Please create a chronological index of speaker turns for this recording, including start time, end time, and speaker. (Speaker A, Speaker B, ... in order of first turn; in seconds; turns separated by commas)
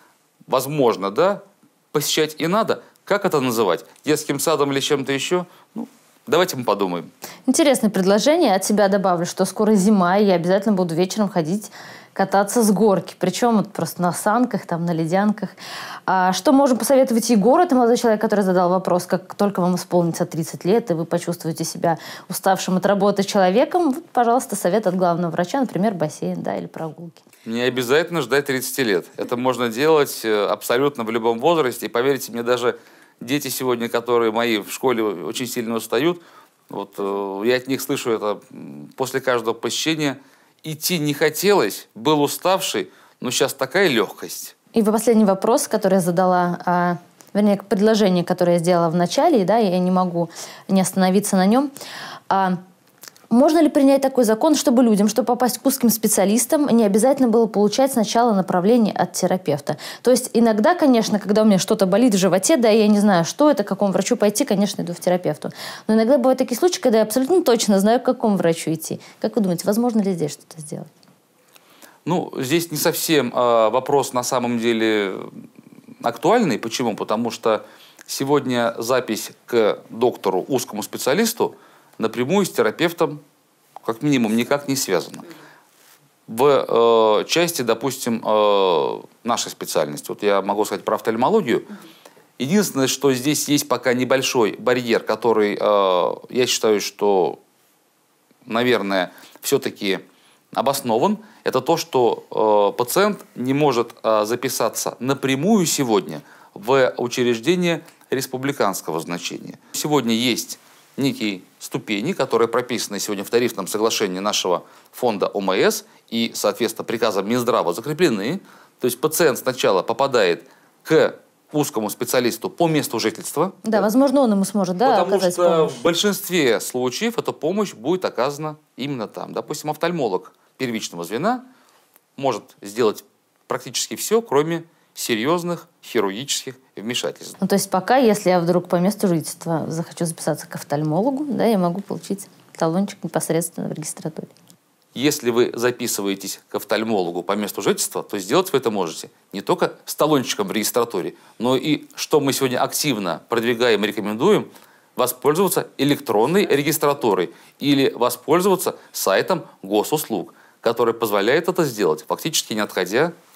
Speaker A: 0.5-7.1, Speaker B: 7.5-27.2, Speaker A: 27.4-44.5, Speaker B: 44.7-51.7, Speaker B: 52.3-52.6, Speaker B: 53.3-70.9, Speaker A: 72.0-75.4, Speaker A: 76.0-83.2, Speaker A: 83.8-85.3, Speaker A: 86.3-91.7, Speaker A: 92.4-97.4, Speaker A: 98.5-123.8, Speaker B: 123.6-125.8, Speaker A: 124.8-131.4, Speaker A: 132.2-137.3, Speaker B: 137.4-144.3, Speaker A: 144.9-163.1